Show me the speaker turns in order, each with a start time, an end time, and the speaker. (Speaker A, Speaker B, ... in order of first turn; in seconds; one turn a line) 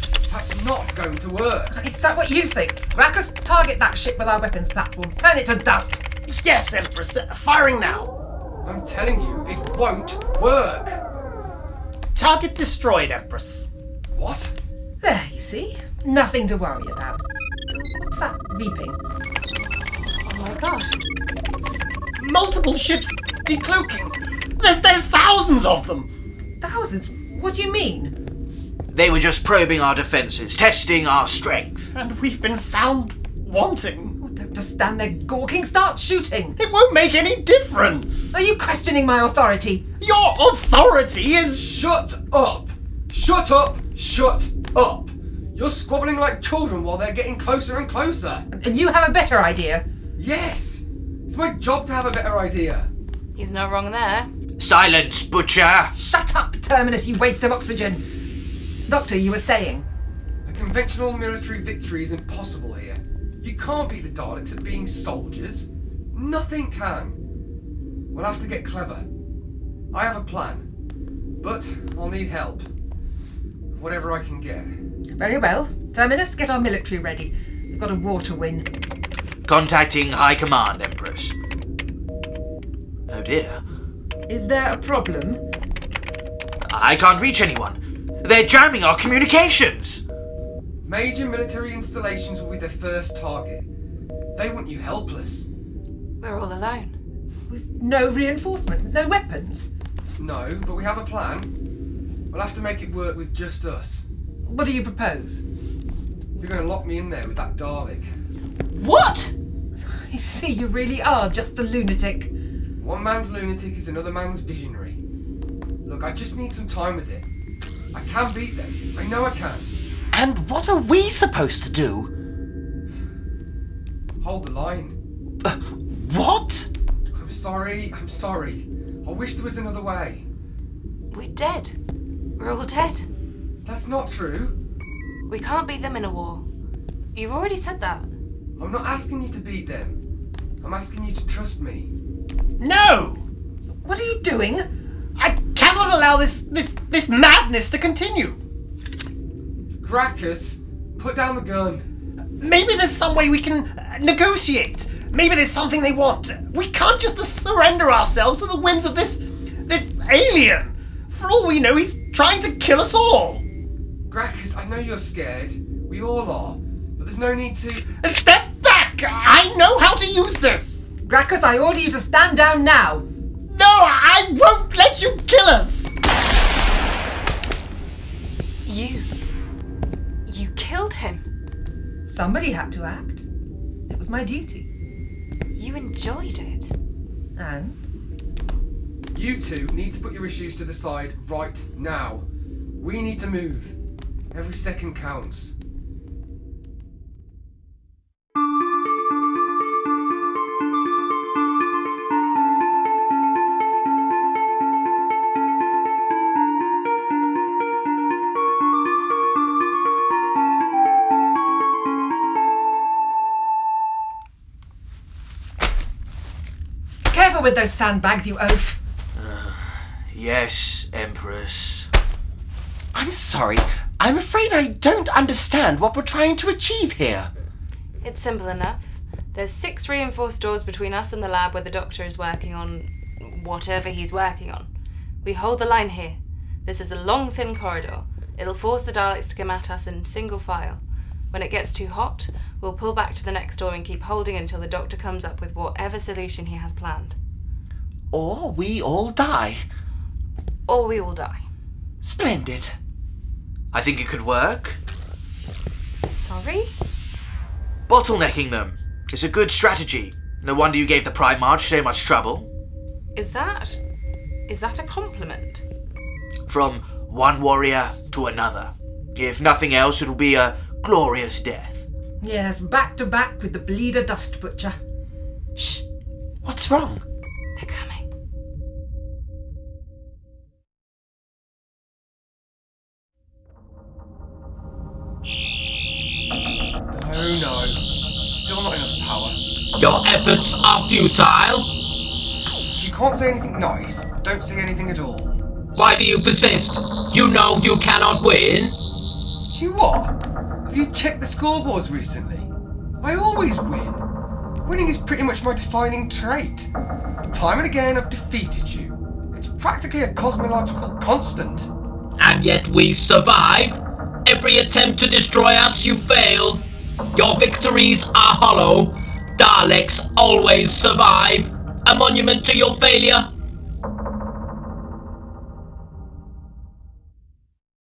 Speaker A: 0.3-1.7
Speaker B: 1.7-6.0
Speaker C: 6.3-8.1
Speaker A: 8.6-11.0
Speaker C: 12.1-13.7
Speaker A: 14.1-14.5
Speaker B: 15.0-19.0
Speaker D: 20.3-21.0
Speaker C: 22.2-26.1
Speaker B: 26.6-28.1
Speaker E: 28.9-31.9
Speaker C: 31.9-34.2
Speaker B: 34.2-36.6
Speaker C: 36.6-38.3
Speaker B: 38.3-39.9
Speaker C: 40.0-41.6
Speaker A: 41.5-48.5
Speaker B: 48.5-49.9
Speaker A: 50.2-52.9
Speaker D: 53.4-54.3
Speaker E: 54.6-55.9
Speaker B: 55.9-58.0
Speaker B: 58.9-59.9
Speaker A: 60.5-67.2
Speaker A: 68.1-69.1
Speaker A: 69.9-70.7
Speaker A: 71.4-72.7
Speaker A: 73.7-74.8
Speaker B: 75.2-78.7
Speaker E: 79.5-81.3
Speaker E: 83.1-83.6
Speaker B: 84.3-85.4
Speaker E: 86.7-90.0
Speaker A: 90.8-93.7
Speaker A: 94.3-95.5
Speaker D: 96.2-97.0
Speaker B: 97.5-99.7
Speaker A: 100.2-101.5
Speaker A: 102.3-104.0
Speaker B: 104.5-105.4
Speaker A: 106.4-108.1
Speaker D: 108.7-109.3
Speaker B: 109.8-112.3
Speaker A: 112.8-115.0
Speaker A: 115.8-117.3
Speaker A: 117.9-119.7
Speaker F: 120.1-122.1
Speaker A: 124.2-125.0
Speaker F: 125.4-126.7
Speaker A: 127.2-130.3
Speaker D: 131.1-131.8
Speaker D: 132.4-133.1
Speaker A: 133.7-134.6
Speaker D: 135.3-136.5
Speaker D: 137.1-138.1
Speaker A: 138.6-140.0
Speaker A: 140.6-141.9
Speaker C: 142.6-143.2
Speaker B: 143.8-144.7
Speaker C: 145.2-148.4
Speaker A: 149.8-151.9
Speaker C: 152.4-163.4
Speaker A: 164.1-167.9
Speaker C: 167.9-170.9
Speaker B: 171.1-173.1
Speaker C: 173.5-176.0
Speaker D: 178.7-179.1
Speaker D: 180.3-181.2
Speaker B: 182.1-183.2
Speaker B: 183.9-184.7
Speaker D: 185.6-186.7
Speaker B: 187.4-187.8
Speaker A: 189.1-192.3
Speaker A: 192.8-193.8
Speaker A: 194.3-195.5
Speaker B: 217.1-218.8
Speaker E: 219.2-221.9
Speaker F: 222.9-227.3
Speaker D: 228.0-234.7
Speaker D: 235.2-247.2
Speaker F: 248.1-249.7
Speaker D: 250.7-251.5
Speaker F: 252.0-252.8
Speaker E: 253.7-254.8
Speaker D: 256.0-256.7
Speaker E: 257.9-262.5
Speaker D: 263.1-263.8
Speaker D: 264.5-265.6
Speaker E: 266.5-271.9
Speaker B: 272.2-274.8
Speaker F: 276.4-277.0
Speaker D: 277.6-278.0
Speaker A: 286.9-289.4
Speaker G: 289.8-291.7
Speaker A: 292.8-295.4
Speaker G: 295.8-298.8
Speaker A: 299.5-300.1
Speaker A: 300.7-302.5
Speaker A: 303.0-304.1
Speaker A: 304.6-306.7
Speaker A: 307.3-311.7
Speaker G: 312.2-316.6
Speaker G: 317.1-323.3